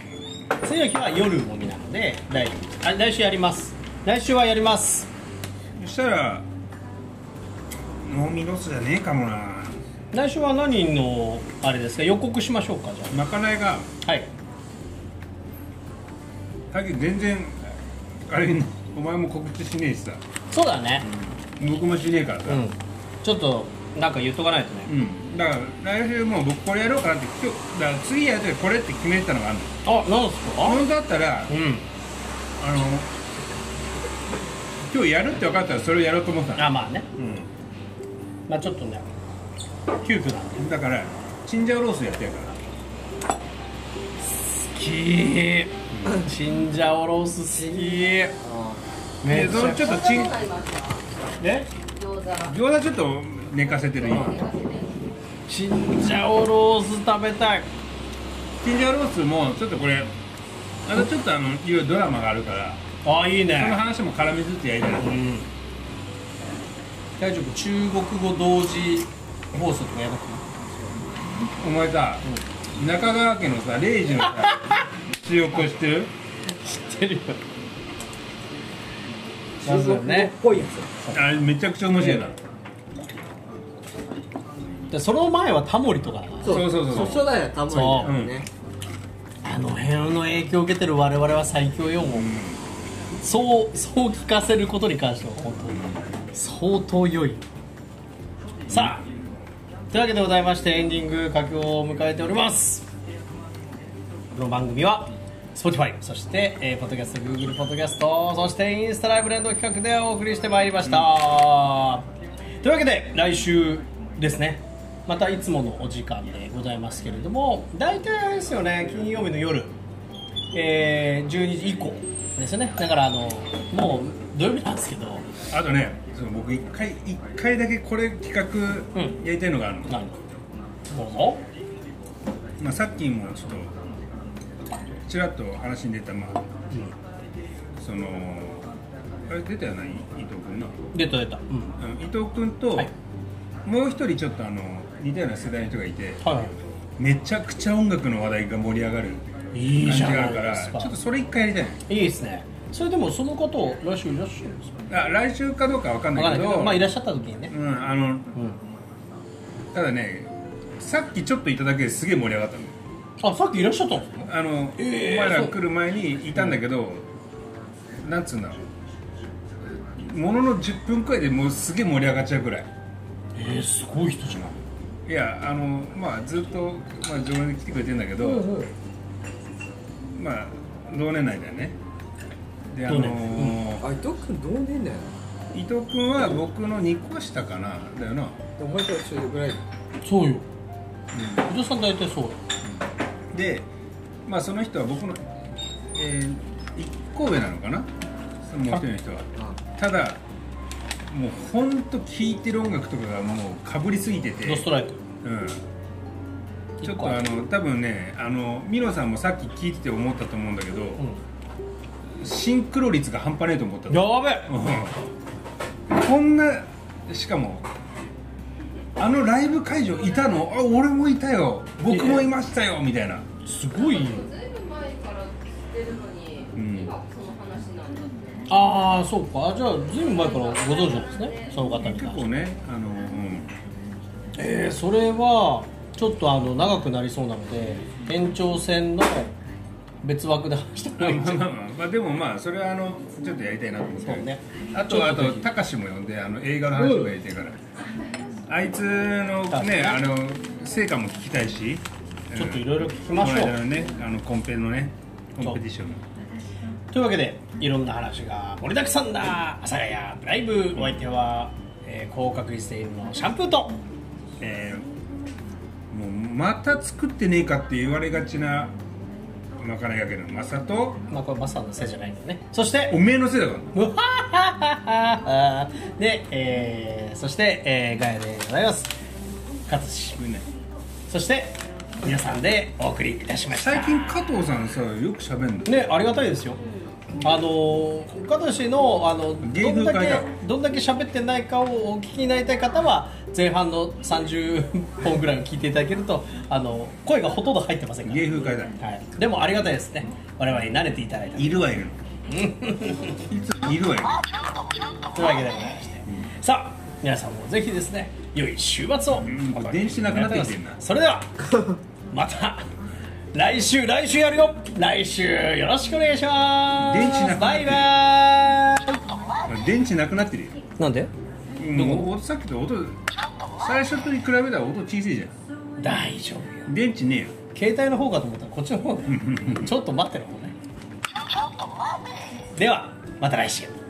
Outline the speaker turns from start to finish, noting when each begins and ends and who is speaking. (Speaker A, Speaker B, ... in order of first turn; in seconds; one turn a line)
Speaker A: 0.6-5.1
Speaker B: 5.8-6.5
Speaker B: 8.0-9.8
Speaker A: 10.1-13.2
Speaker B: 13.1-13.9
Speaker A: 14.0-14.3
Speaker B: 16.7-20.2
Speaker A: 20.5-21.1
Speaker B: 21.0-22.6
Speaker A: 22.5-24.9
Speaker B: 24.9-29.8
Speaker A: 29.8-30.9
Speaker B: 30.6-31.6
Speaker A: 31.5-31.9
Speaker B: 32.6-33.1
Speaker B: 34.9-37.5
Speaker A: 36.5-37.0
Speaker A: 38.5-39.0
Speaker A: 40.0-40.6
Speaker B: 40.6-42.6
Speaker A: 44.2-48.3
Speaker B: 45.9-46.2
Speaker C: 47.5-48.9
Speaker A: 49.2-50.0
Speaker B: 49.2-50.4
Speaker D: 49.5-51.0
Speaker A: 51.4-51.7
Speaker D: 51.9-52.6
Speaker B: 52.4-54.4
Speaker D: 53.6-55.1
Speaker A: 54.1-54.4
Speaker A: 55.5-57.7
Speaker B: 58.6-60.1
Speaker B: 60.8-62.8
Speaker A: 63.0-63.8
Speaker B: 63.5-65.2
Speaker A: 65.0-65.5
Speaker A: 67.2-70.4
Speaker B: 71.6-76.1
Speaker A: 74.2-74.8
Speaker A: 76.5-77.4
Speaker C: 79.6-80.9
Speaker A: 79.6-80.3
Speaker B: 81.1-82.4
Speaker A: 84.9-88.1
Speaker C: 86.4-88.5
Speaker B: 86.4-87.3
Speaker B: 88.0-88.4
Speaker A: 89.4-92.3
Speaker B: 92.1-92.6
Speaker A: 93.2-97.4
Speaker B: 95.7-96.0
Speaker B: 98.7-99.1
Speaker A: 98.7-99.0
Speaker A: 99.9-102.9
Speaker A: 104.3-112.1
Speaker A: 112.6-119.7
Speaker A: 120.5-125.2
Speaker B: 125.5-130.0
Speaker A: 129.9-130.2
Speaker A: 130.9-131.4
Speaker B: 132.6-133.8
Speaker B: 135.0-136.4
Speaker B: 137.8-138.7
Speaker B: 139.3-140.9
Speaker A: 140.9-141.8
Speaker B: 141.8-142.9
Speaker B: 143.6-146.2
Speaker A: 146.2-146.5
Speaker B: 147.0-151.8
Speaker A: 149.5-151.0
Speaker A: 151.9-154.8
Speaker B: 154.9-156.9
Speaker A: 156.1-157.5
Speaker B: 157.5-158.3
Speaker B: 159.7-162.8
Speaker A: 163.2-165.6
Speaker B: 164.2-167.1
Speaker B: 168.0-168.6
Speaker B: 169.9-172.7
Speaker A: 173.3-174.6
Speaker B: 175.1-178.5
Speaker C: 178.2-178.7
Speaker B: 180.1-181.8
Speaker B: 182.7-183.8
Speaker A: 182.9-183.6
Speaker C: 183.8-185.2
Speaker B: 185.5-188.4
Speaker C: 188.6-189.6
Speaker A: 190.0-190.4
Speaker B: 191.1-191.4
Speaker A: 191.5-192.4
Speaker B: 193.3-193.7
Speaker B: 194.2-195.2
Speaker B: 195.9-197.9
Speaker B: 198.4-200.2
Speaker B: 201.1-204.7
Speaker A: 204.4-205.0
Speaker B: 205.2-205.6
Speaker A: 206.8-207.2
Speaker B: 206.8-211.1
Speaker B: 212.2-215.0
Speaker A: 213.9-214.5
Speaker B: 215.9-217.7
Speaker B: 219.0-223.3
Speaker A: 221.8-222.2
Speaker A: 223.4-224.3
Speaker D: 223.7-228.5
Speaker B: 226.6-226.9
Speaker A: 228.5-232.3
Speaker D: 229.9-231.7
Speaker B: 231.7-233.5
Speaker A: 234.3-239.3
Speaker A: 240.0-241.5
Speaker B: 241.0-247.6
Speaker A: 244.0-245.5
Speaker A: 246.8-247.1
Speaker B: 248.5-256.0
Speaker A: 249.5-250.0
Speaker A: 252.3-253.6
Speaker A: 256.9-263.8
Speaker B: 264.4-264.8
Speaker B: 265.9-268.8
Speaker B: 269.6-271.0
Speaker A: 271.1-273.0
Speaker B: 272.9-273.7
Speaker A: 273.7-278.9
Speaker A: 279.6-280.2
Speaker B: 280.1-280.5
Speaker A: 281.1-284.2
Speaker B: 283.5-285.7
Speaker A: 285.6-286.6
Speaker D: 286.6-286.9
Speaker A: 287.2-301.6
Speaker B: 289.4-290.3
Speaker B: 298.0-298.8
Speaker B: 301.4-302.0
Speaker A: 302.3-303.2
Speaker B: 303.2-304.2
Speaker A: 305.1-311.4
Speaker B: 309.1-310.8
Speaker A: 312.1-312.7
Speaker A: 313.3-319.0
Speaker B: 316.8-317.9
Speaker B: 319.4-320.6
Speaker A: 320.8-321.1
Speaker B: 321.5-323.0
Speaker A: 321.7-322.1
Speaker B: 323.6-325.3
Speaker A: 325.8-326.7
Speaker B: 326.6-327.3
Speaker A: 327.5-330.5
Speaker B: 329.1-329.7
Speaker A: 332.6-333.7